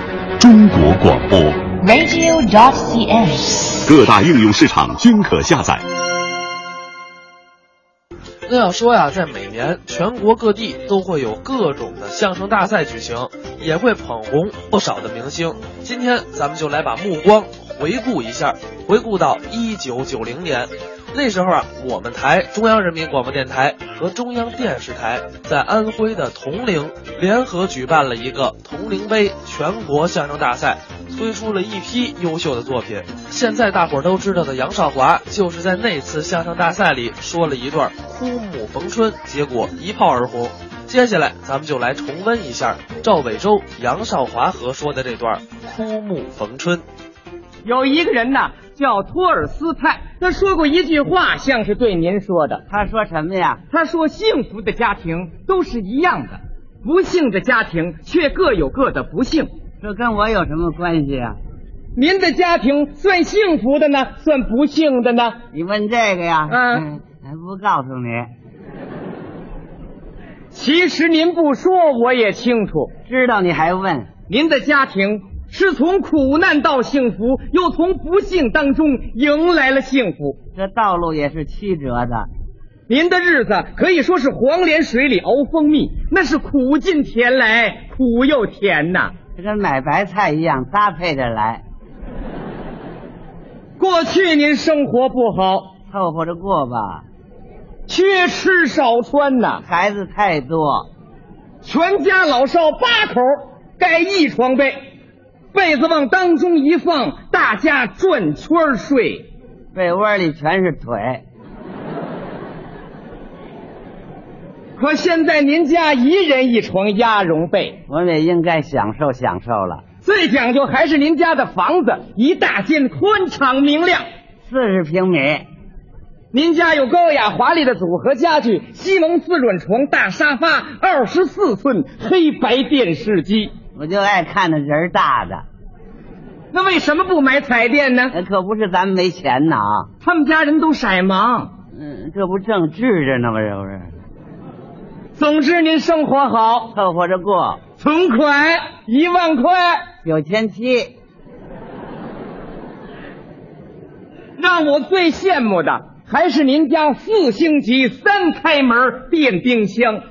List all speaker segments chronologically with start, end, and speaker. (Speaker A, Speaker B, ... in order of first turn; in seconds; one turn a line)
Speaker A: 0.4-1.7
Speaker B: 1.8-3.7
Speaker A: 3.9-5.8
Speaker C: 8.5-46.8
Speaker D: 47.6-52.6
Speaker E: 52.7-53.6
Speaker D: 53.7-59.5
Speaker E: 59.8-61.4
Speaker D: 61.9-65.4
Speaker E: 65.5-68.3
Speaker D: 66.5-66.8
Speaker D: 70.5-72.9
Speaker E: 73.1-74.1
Speaker D: 74.3-80.4
Speaker E: 80.5-82.3
Speaker D: 82.9-89.1
Speaker E: 89.4-91.6
Speaker D: 93.8-95.8
Speaker E: 95.9-97.0
Speaker D: 97.9-99.6
Speaker E: 99.7-100.9
Speaker D: 101.6-104.9
Speaker D: 105.5-109.3
Speaker E: 109.7-111.2
Speaker D: 114.8-117.8
Speaker E: 117.9-119.8
Speaker D: 120.0-124.0
Speaker E: 124.4-125.5
Speaker D: 126.3-133.5
Speaker E: 133.8-135.4
Speaker D: 136.5-138.2
Speaker E: 138.1-139.9
Speaker D: 140.0-141.5
Speaker E: 141.7-143.9
Speaker D: 145.2-146.8
Speaker E: 146.7-147.6
Speaker D: 147.8-149.8
Speaker E: 150.0-150.9
Speaker D: 154.4-160.0